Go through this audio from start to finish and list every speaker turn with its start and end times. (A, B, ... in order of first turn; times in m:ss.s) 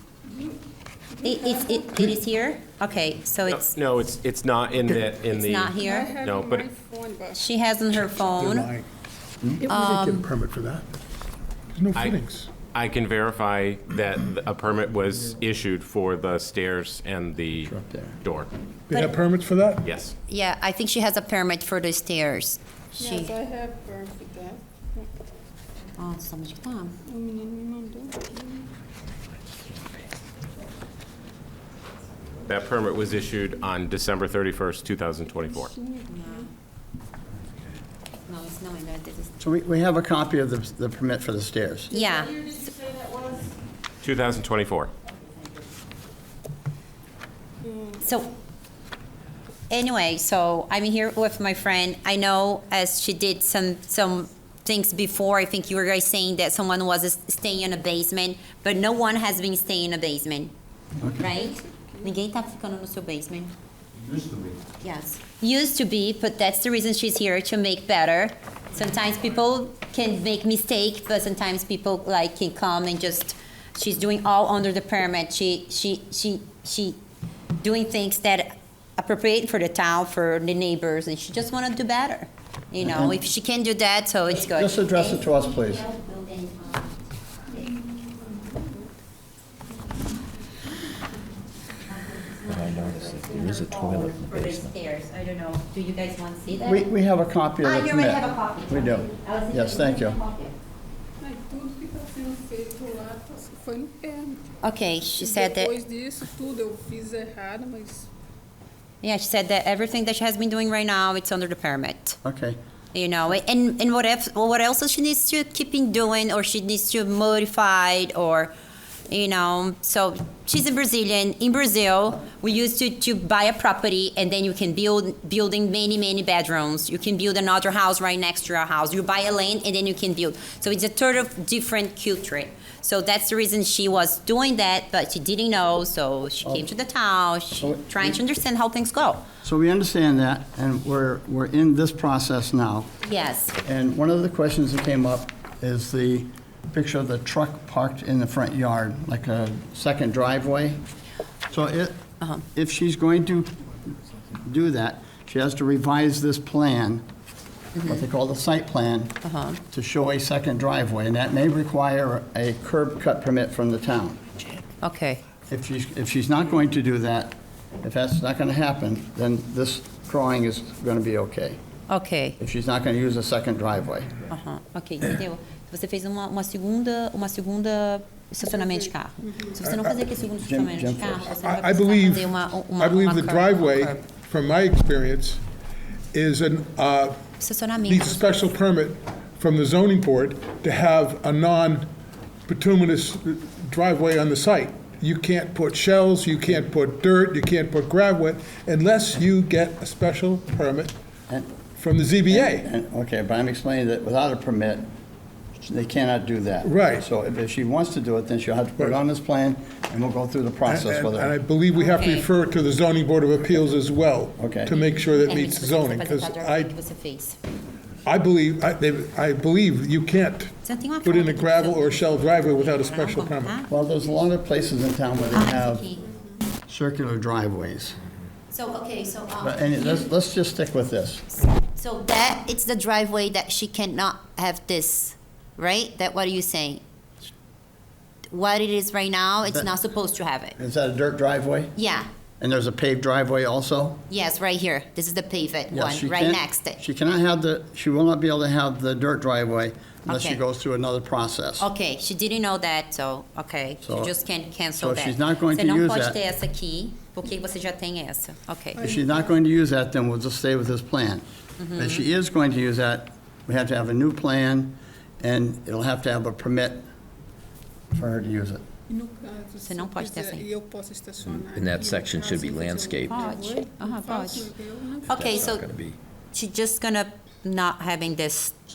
0:00.3-0:02.2 A
0:01.2-0:03.7 B
0:03.4-0:06.7 C
0:05.2-0:06.1 B
0:05.7-0:07.4 A
0:07.3-0:08.7 B
0:08.2-0:08.9 D
0:09.6-0:10.9 D
0:09.7-0:10.3 B
0:11.7-0:12.5 D
0:12.7-0:18.5 C
0:17.6-0:18.2 E
0:18.9-0:19.9 D
0:19.8-0:20.1 C
0:20.3-0:23.3 B
0:23.0-0:25.1 A
0:26.0-0:27.0 B
0:27.1-0:28.6 A
0:32.4-0:35.7 C
0:35.5-0:36.5 A
0:36.1-0:36.5 B
0:38.2-0:39.3 B
0:39.4-0:41.9 E
0:41.9-0:42.6 B
0:42.7-0:43.4 A
0:44.0-0:44.9 C
0:48.0-0:48.3 B
0:49.7-1:00.5 B
1:01.0-1:01.3 E
1:01.2-1:03.5 B
1:01.3-1:02.1 A
1:04.1-1:04.6 F
1:04.8-1:17.0 B
1:17.6-1:27.7 B
1:22.8-1:23.2 E
1:24.4-1:25.8 E
1:31.8-1:36.9 B
1:32.5-1:34.7 F
1:36.6-1:40.2 E
1:37.6-1:40.5 B
1:41.2-1:44.5 A
1:44.6-1:45.7 B
1:45.2-1:48.1 A
1:49.0-1:52.2 B
1:52.2-1:52.6 E
1:52.9-1:58.5 B
1:59.1-2:19.2 B
2:16.4-2:16.7 E
2:17.6-2:18.2 E
2:19.4-2:22.9 E
2:23.0-2:23.6 B
2:23.6-2:30.8 E
2:31.5-2:33.5 E
2:34.3-2:37.0 E
2:37.8-2:38.0 B
2:37.8-2:39.2 E
2:39.2-2:39.6 B
2:39.7-2:44.4 E
2:44.8-2:45.2 B
2:45.5-2:51.6 E
2:51.9-2:52.4 B
2:52.4-2:54.1 E
2:54.3-3:04.0 B
2:58.4-2:59.6 A
2:59.6-2:59.9 D
3:00.4-3:01.3 E
3:01.4-3:05.4 D
3:06.1-3:07.3 D
3:07.4-3:08.5 B
3:07.8-3:11.9 D
3:12.5-3:20.9 D
3:21.8-3:22.7 D
3:22.3-3:24.9 E
3:25.6-3:31.3 E
3:26.6-3:27.0 D
3:30.6-3:36.7 D
3:31.7-3:32.3 B
3:34.4-3:34.7 E
3:35.2-3:37.4 B
3:38.0-3:43.6 D
3:40.6-3:43.7 B
3:43.7-3:45.8 E
3:45.3-3:46.1 B
3:46.1-3:46.4 A
3:46.7-3:48.0 E
3:48.5-3:50.1 B
3:49.4-3:51.2 E
3:51.3-3:56.8 B
3:58.3-4:00.6 B
4:00.6-4:01.7 E
4:01.8-4:02.1 B
4:02.4-4:04.0 E
4:04.1-4:06.8 B
4:05.7-4:11.7 E
4:10.0-4:10.4 B
4:11.6-4:18.8 B
4:13.8-4:14.1 E
4:14.8-4:16.2 E
4:18.7-4:19.4 A
4:18.8-4:21.2 E
4:21.6-4:22.0 B
4:21.7-4:26.8 E
4:27.9-4:28.6 E
4:28.9-4:35.2 A
4:29.6-4:30.5 B
4:31.2-4:33.2 F
4:33.1-4:34.5 B
4:35.0-4:36.0 F
4:35.1-4:35.7 B
4:36.3-4:38.5 B